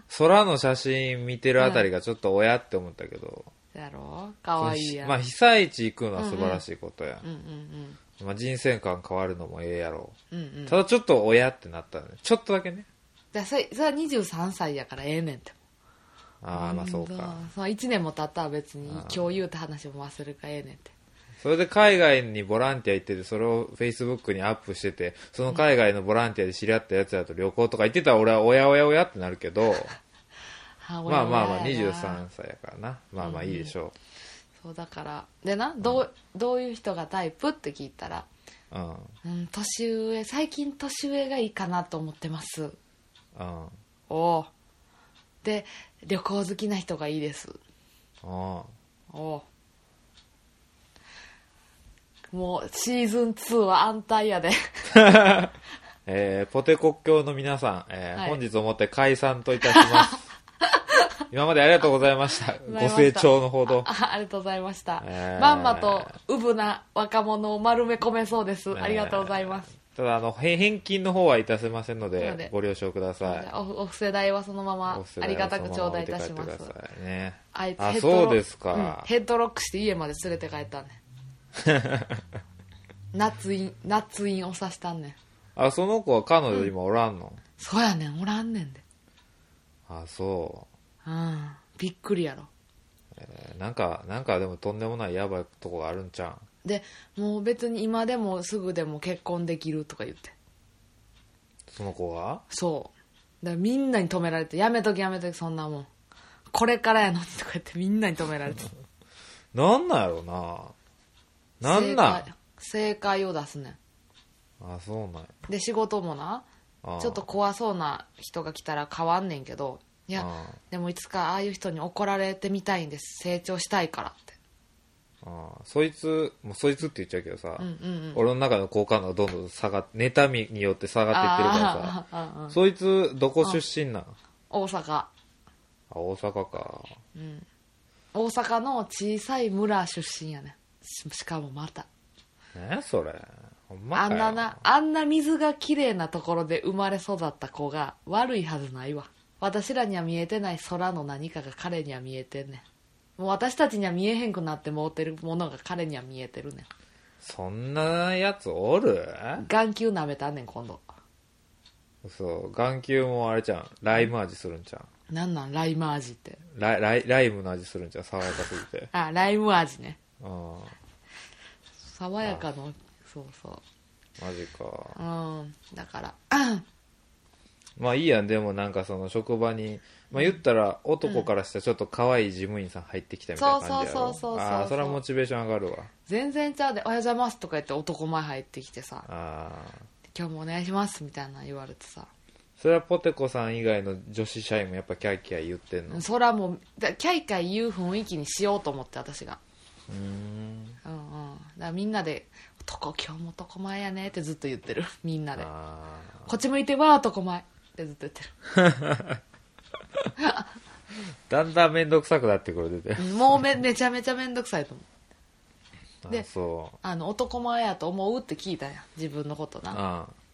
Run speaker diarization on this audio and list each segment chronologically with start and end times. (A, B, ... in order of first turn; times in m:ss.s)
0:00.1-0:03.5 A
0:01.6-0:01.9 B
0:03.7-0:05.2 B
0:04.6-0:07.2 A
0:06.2-0:06.6 B
0:07.2-0:08.0 B
0:08.2-0:10.2 A
0:10.3-0:10.8 B
0:10.7-0:12.9 A
0:13.3-0:15.6 B
0:16.4-0:17.4 A
0:16.5-0:20.9 B
0:18.8-0:19.3 A
0:21.4-0:30.0 A
0:30.8-0:32.2 B
0:31.1-0:33.9 A
0:33.2-0:33.7 B
0:34.6-0:38.3 B
0:38.7-0:39.1 A
0:39.2-0:42.8 B
0:43.3-0:43.8 A
0:44.1-0:44.5 B
0:45.4-0:47.6 B
0:48.2-0:48.7 A
0:49.1-0:49.4 B
0:52.3-0:54.8 B
0:54.9-0:55.5 A
0:56.0-1:00.2 A
0:59.6-1:01.0 B
1:01.3-1:03.9 A
1:02.6-1:09.7 B
1:05.0-1:06.1 A
1:08.7-1:13.5 A
1:12.2-1:12.5 B
1:13.2-1:16.7 B
1:14.9-1:19.1 A
1:17.5-1:21.0 B
1:21.6-1:22.2 A
1:23.1-1:25.2 B
1:25.6-1:27.4 A
1:27.6-1:28.8 B
1:29.9-1:30.7 A
1:31.0-1:32.5 B
1:33.1-1:36.4 A
1:36.6-1:40.3 B
1:41.7-1:42.4 A
1:42.5-1:45.9 B
1:46.5-1:48.7 B
1:49.5-1:50.7 A
1:51.6-1:52.2 A
1:51.6-1:53.8 B
1:54.6-1:55.3 A
1:55.5-1:56.4 B
1:56.8-1:57.2 A
1:57.0-2:04.4 B
2:00.2-2:00.6 A
2:05.2-2:12.0 A
2:07.6-2:08.2 B
2:11.1-2:12.6 B
2:12.5-2:14.1 A
2:14.5-2:15.1 B
2:15.9-2:17.0 A
2:17.1-2:17.4 B
2:18.1-2:21.9 B
2:22.5-2:24.6 A
2:23.9-2:32.6 B
2:33.2-2:36.7 B
2:37.2-2:39.4 A
2:39.4-2:40.8 B
2:42.0-2:44.9 A
2:45.1-2:46.4 B
2:46.5-2:48.9 A
2:48.9-2:50.0 B
2:50.2-2:50.7 A
2:51.9-2:53.6 B
2:54.2-2:55.0 A
2:54.9-2:56.6 B
2:57.8-3:05.9 A
3:01.0-3:01.3 B
3:03.4-3:05.0 B
3:06.1-3:09.1 B
3:09.0-3:09.8 A
3:10.1-3:12.1 B
3:12.6-3:16.0 A
3:15.9-3:19.4 B
3:19.9-3:20.8 A
3:20.8-3:25.5 B
3:25.4-3:26.3 A
3:26.2-3:28.3 B
3:28.5-3:29.2 A
3:30.2-3:30.5 B
3:31.3-3:33.4 A
3:33.0-3:34.8 B
3:36.0-3:36.8 A
3:36.8-3:39.8 B
3:39.7-3:40.1 A